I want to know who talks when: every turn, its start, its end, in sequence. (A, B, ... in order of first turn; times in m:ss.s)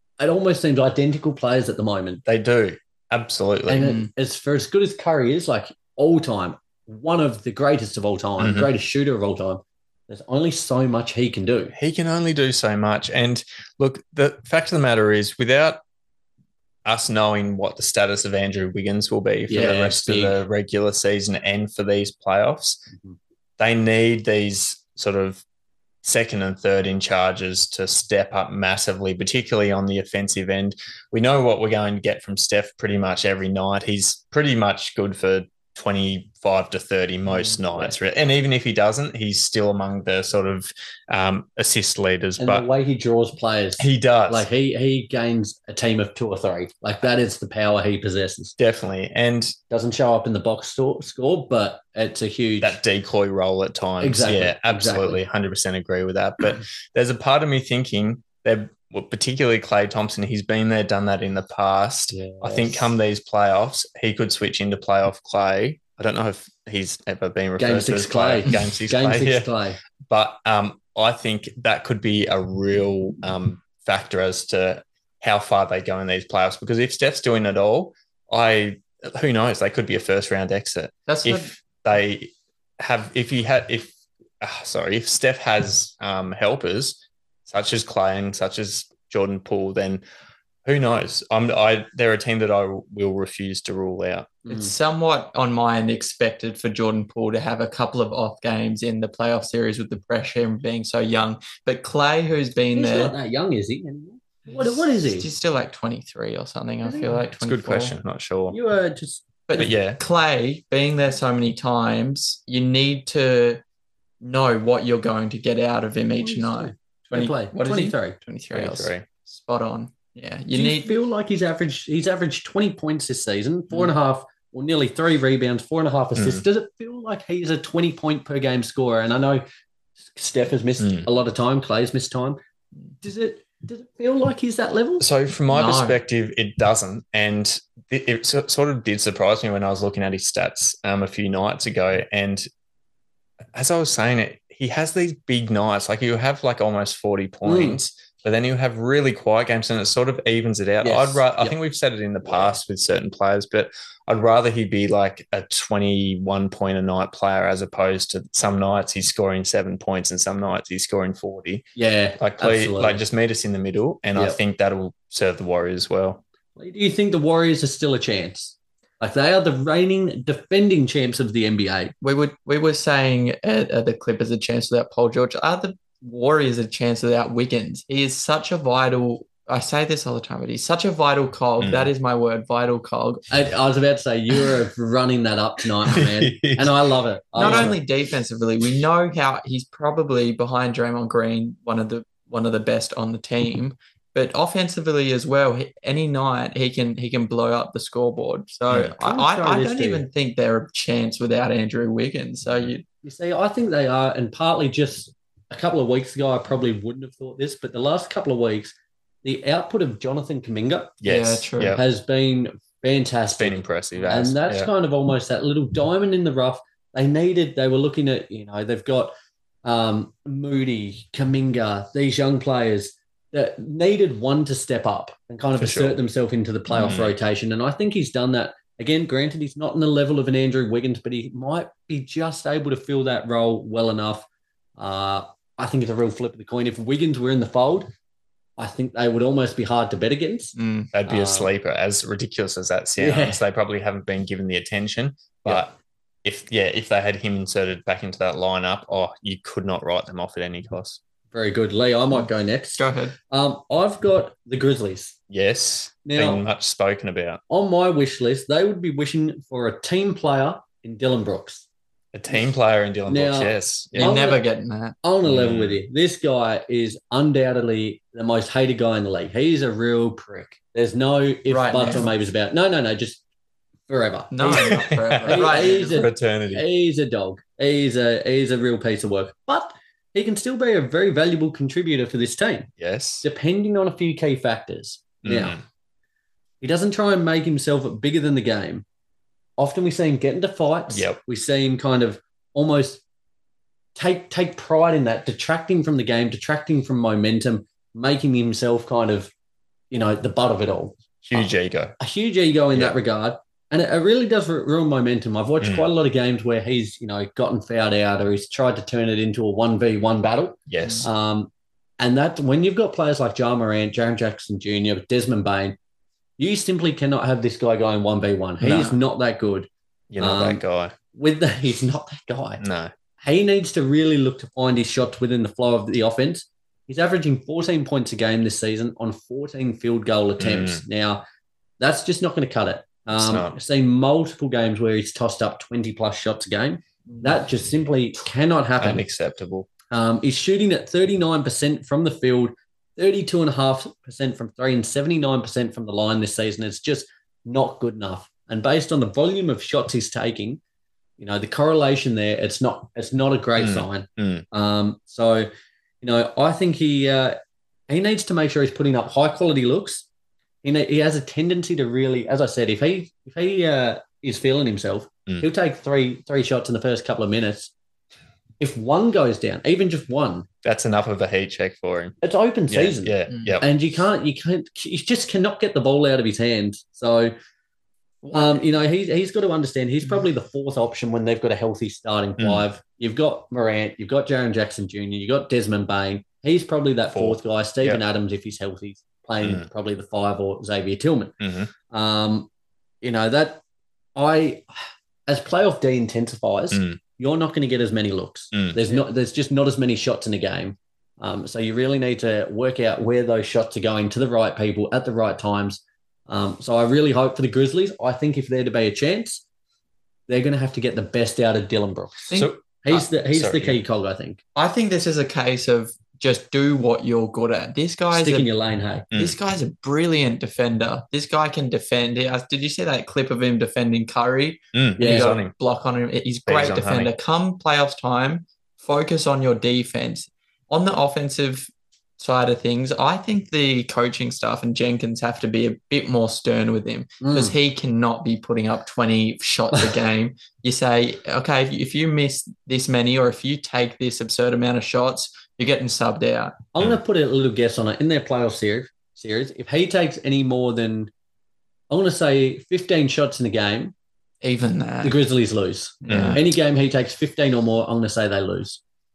0:00.2-0:02.2 A
0:02.2-0:03.8 B
0:03.7-0:11.7 A
0:03.8-0:04.1 C
0:08.4-0:08.7 B
0:11.7-0:15.8 B
0:16.8-0:22.9 B
0:19.5-0:20.4 A
0:23.6-0:25.4 B
0:26.0-0:42.7 B
0:37.7-0:37.9 A
0:42.4-0:48.5 A
0:43.8-0:44.5 B
0:48.6-0:49.6 B
0:49.7-0:52.8 A
0:52.6-1:09.5 B
0:54.0-0:55.2 A
1:02.1-1:02.9 A
1:07.6-1:09.8 A
1:10.0-1:30.0 B
1:21.1-1:21.5 C
1:30.6-1:34.4 B
1:34.4-1:34.7 A
1:34.5-1:43.1 C
1:42.7-1:45.3 A
1:44.5-1:47.9 C
1:46.8-1:47.2 A
1:47.3-1:48.6 B
1:48.5-1:49.4 A
1:49.5-1:53.6 C
1:49.6-1:50.0 B
1:54.2-2:00.9 C
1:56.2-1:58.2 A
1:58.5-1:59.1 B
2:00.5-2:09.4 A
2:06.2-2:06.4 B
2:10.0-2:12.4 A
2:10.8-2:11.1 B
2:13.0-2:15.1 A
2:15.0-2:22.5 B
2:15.5-2:16.0 C
2:23.5-2:41.6 B
2:27.4-2:27.8 A
2:30.8-2:31.6 A
2:41.8-2:43.0 A
2:42.2-2:46.2 B
2:46.6-2:51.9 A
2:52.0-3:03.2 C
3:01.6-3:01.9 B
3:03.3-3:07.8 A
3:05.9-3:06.7 B
3:07.4-3:07.8 B
3:07.4-3:22.8 C
3:19.0-3:20.0 A
3:23.0-3:28.7 A
3:29.2-3:31.0 A
3:31.0-3:31.8 B
3:31.0-3:31.8 C
3:31.7-3:39.1 A
3:33.3-3:34.7 B
3:39.6-3:57.9 A
3:45.6-3:46.0 B
3:46.7-3:47.1 B
3:58.6-4:01.5 A
4:00.6-4:00.9 C
4:00.9-4:11.0 B
4:03.0-4:03.4 A
4:11.3-4:15.2 A
4:12.8-4:13.2 C
4:15.3-4:17.4 B
4:16.0-4:16.4 A
4:17.5-4:21.6 A
4:22.1-4:24.2 B
4:23.1-4:24.4 A
4:24.0-4:24.9 C
4:25.0-4:33.2 A
4:25.2-4:25.8 B
4:31.5-4:32.0 C
4:33.9-4:42.7 A
4:34.3-4:36.0 C
4:34.4-4:36.6 B
4:42.8-4:43.2 B
4:43.2-4:45.6 A
4:45.2-4:45.6 B
4:46.6-4:48.8 A
4:49.6-4:53.0 A
4:50.9-4:51.2 B
4:53.9-4:59.3 A
4:59.9-5:15.8 A
5:01.2-5:02.0 B
5:10.7-5:11.1 B
5:16.4-5:19.7 A
5:18.6-5:19.0 C
5:20.1-5:20.9 B
5:20.2-5:20.6 A
5:21.1-5:22.6 A
5:22.6-5:22.9 B
5:23.2-5:31.2 A
5:30.4-5:30.8 B
5:31.8-5:39.0 A
5:33.1-5:33.6 B
5:38.8-5:39.7 B
5:39.9-5:50.6 A
5:51.2-5:55.5 A
5:53.6-5:54.4 B
5:56.0-6:00.0 A
6:00.6-6:07.7 A
6:08.6-6:10.5 A
6:10.6-6:12.2 B
6:12.2-6:17.3 A
6:12.7-6:13.7 B
6:13.3-6:13.6 C
6:18.3-6:31.4 A
6:22.4-6:22.6 B
6:27.1-6:28.0 B
6:29.4-6:29.7 B
6:31.4-6:31.7 B
6:31.9-6:32.5 A
6:33.0-6:33.6 A
6:34.1-6:49.4 A
6:36.7-6:37.0 B
6:38.5-6:38.8 B
6:50.3-6:54.4 A
6:52.3-6:53.8 B
6:54.6-6:58.5 C
6:58.1-6:59.0 A
6:59.1-6:59.4 B
6:59.1-7:26.6 C
7:04.7-7:05.5 B
7:05.0-7:05.3 A
7:06.5-7:07.1 B
7:17.2-7:17.5 A
7:26.7-7:31.1 A
7:31.9-7:33.9 A
7:34.4-7:35.2 C
7:35.0-7:38.8 A
7:36.0-7:36.4 C
7:36.1-7:36.4 B